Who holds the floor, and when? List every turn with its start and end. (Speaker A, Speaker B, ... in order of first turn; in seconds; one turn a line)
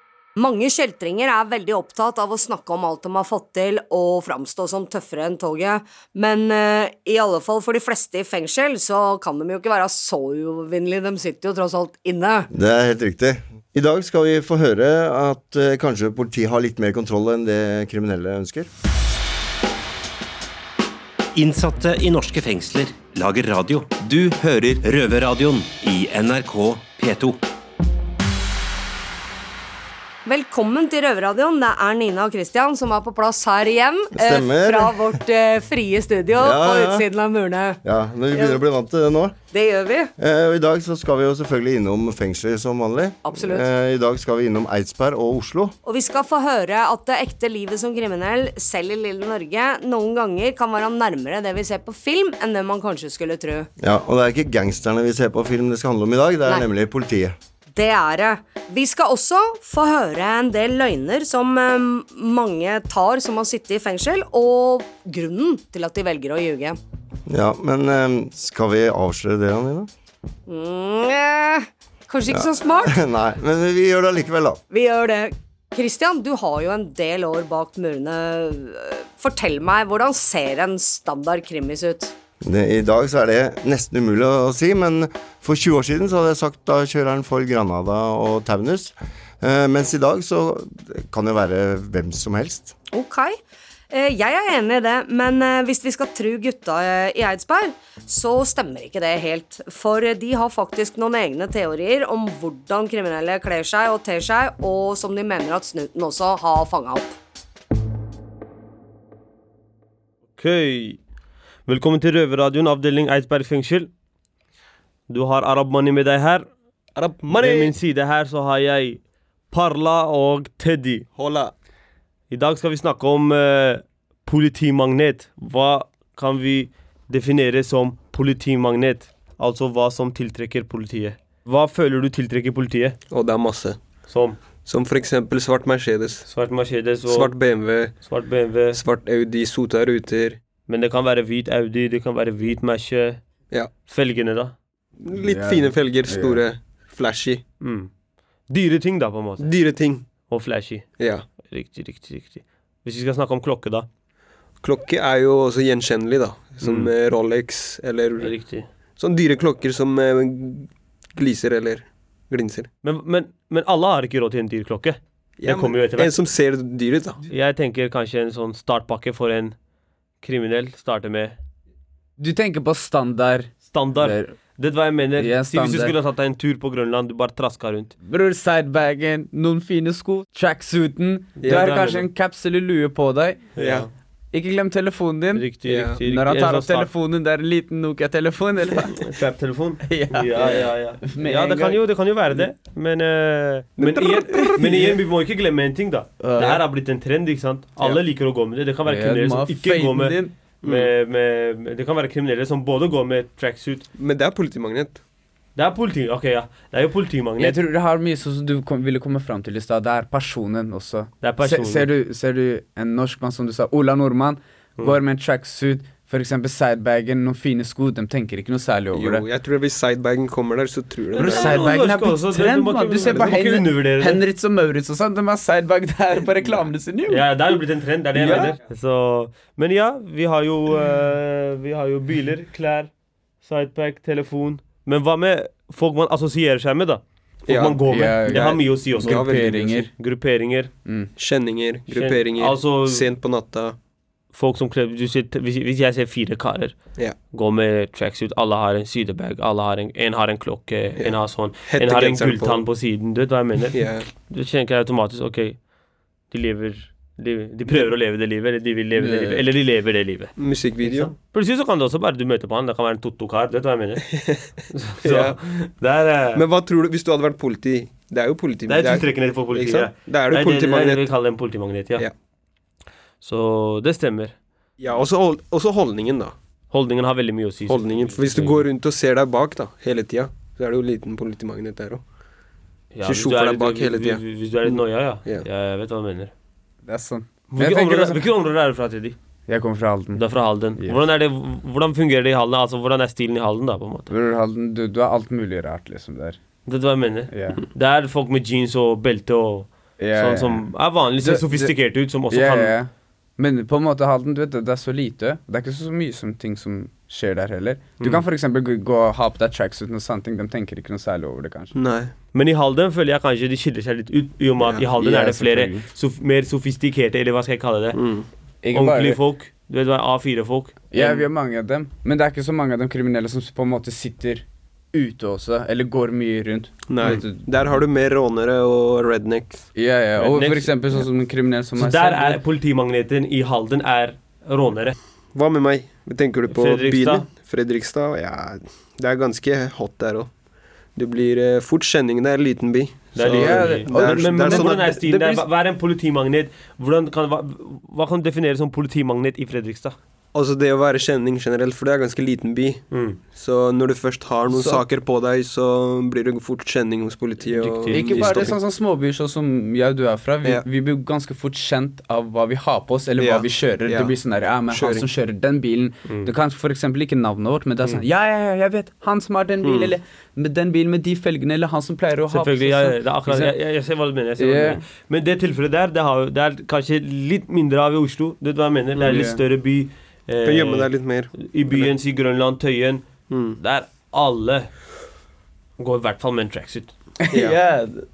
Speaker A: 0.3-12.5
Speaker B: 12.5-18.7
Speaker C: 21.3-27.4
Speaker A: 30.2-37.8
Speaker B: 34.1-35.0
Speaker B: 36.4-37.0
Speaker B: 37.8-39.4
Speaker A: 38.3-38.6
Speaker A: 39.5-40.1
Speaker B: 40.2-45.7
Speaker A: 43.2-43.6
Speaker A: 45.8-53.7
Speaker B: 53.8-57.4
Speaker A: 57.7-66.8
Speaker B: 67.3-69.9
Speaker A: 70.5-73.0
Speaker B: 72.3-74.6
Speaker A: 74.7-82.1
Speaker B: 82.4-92.7
Speaker A: 92.9-93.4
Speaker A: 93.9-107.2
Speaker D: 110.4-111.0
Speaker D: 111.7-113.9
Speaker D: 115.1-116.5
Speaker E: 116.9-117.8
Speaker D: 117.2-121.1
Speaker E: 121.1-121.5
Speaker D: 122.3-133.0
Speaker E: 133.1-136.3
Speaker D: 134.1-134.4
Speaker D: 136.2-138.8
Speaker E: 137.0-140.4
Speaker D: 140.7-143.3
Speaker D: 143.8-144.6
Speaker E: 145.0-147.4
Speaker F: 145.1-146.6
Speaker D: 147.6-147.9
Speaker D: 148.5-153.9
Speaker E: 149.4-150.1
Speaker E: 151.0-151.2
Speaker E: 154.6-162.7
Speaker D: 156.6-156.9
Speaker D: 158.2-158.7
Speaker D: 162.8-166.2
Speaker E: 165.4-167.2
Speaker D: 167.2-169.6
Speaker D: 170.2-171.4
Speaker F: 172.2-174.3
Speaker D: 173.7-177.9
Speaker F: 175.2-175.9
Speaker F: 178.0-183.6
Speaker E: 181.4-182.1
Speaker D: 181.4-181.8
Speaker E: 183.6-183.9
Speaker D: 183.6-183.9
Speaker F: 184.3-189.2
Speaker D: 185.3-186.9
Speaker E: 185.7-186.0
Speaker D: 188.9-203.9
Speaker F: 189.8-192.5
Speaker E: 193.8-194.9
Speaker F: 194.3-194.6
Speaker F: 196.2-196.6
Speaker F: 198.8-200.4
Speaker E: 200.6-200.9
Speaker E: 203.9-205.0
Speaker D: 205.6-207.6
Speaker F: 207.4-219.2
Speaker D: 211.2-211.9
Speaker E: 218.9-221.6
Speaker D: 221.2-224.2
Speaker F: 221.2-228.6
Speaker D: 227.1-240.7
Speaker E: 228.2-228.5
Speaker E: 237.5-239.8
Speaker F: 237.8-239.9
Speaker F: 240.8-241.1
Speaker E: 241.2-243.8
Speaker D: 241.9-243.2
Speaker D: 244.3-255.7
Speaker E: 251.0-252.7
Speaker E: 253.7-254.1
Speaker D: 256.3-264.2
Speaker F: 259.0-259.5
Speaker E: 260.4-261.2
Speaker E: 264.1-264.4
Speaker D: 264.7-266.4
Speaker E: 265.0-265.4
Speaker E: 266.3-272.1
Speaker D: 268.7-272.1
Speaker D: 273.2-274.4
Speaker E: 274.8-276.4
Speaker D: 276.7-278.7
Speaker E: 277.6-282.0
Speaker D: 282.9-286.3
Speaker E: 283.0-285.5
Speaker F: 286.8-288.3
Speaker D: 287.5-289.2
Speaker F: 289.5-291.0
Speaker D: 290.1-294.1
Speaker F: 294.1-296.4
Speaker D: 296.6-302.8
Speaker F: 297.3-297.6
Speaker F: 300.0-311.8
Speaker E: 311.7-312.1
Speaker D: 312.3-321.2
Speaker F: 314.9-315.9
Speaker E: 317.9-318.3
Speaker F: 318.6-319.3
Speaker F: 320.9-327.5
Speaker E: 326.8-329.7
Speaker F: 329.7-332.4
Speaker D: 330.1-331.1
Speaker D: 331.7-334.9
Speaker E: 335.3-340.3
Speaker D: 336.5-337.3
Speaker E: 340.9-345.2
Speaker D: 343.1-350.0
Speaker F: 343.2-345.4
Speaker E: 350.3-358.5
Speaker D: 352.9-353.2
Speaker F: 354.5-354.9
Speaker D: 357.4-358.6
Speaker F: 357.9-373.6
Speaker E: 363.2-364.2
Speaker E: 364.7-365.1
Speaker D: 366.1-366.3
Speaker D: 372.3-384.9
Speaker F: 374.4-374.8
Speaker F: 379.0-379.4
Speaker E: 380.4-381.9
Speaker E: 383.3-383.6
Speaker D: 385.8-387.9
Speaker F: 387.2-387.9
Speaker E: 387.3-387.9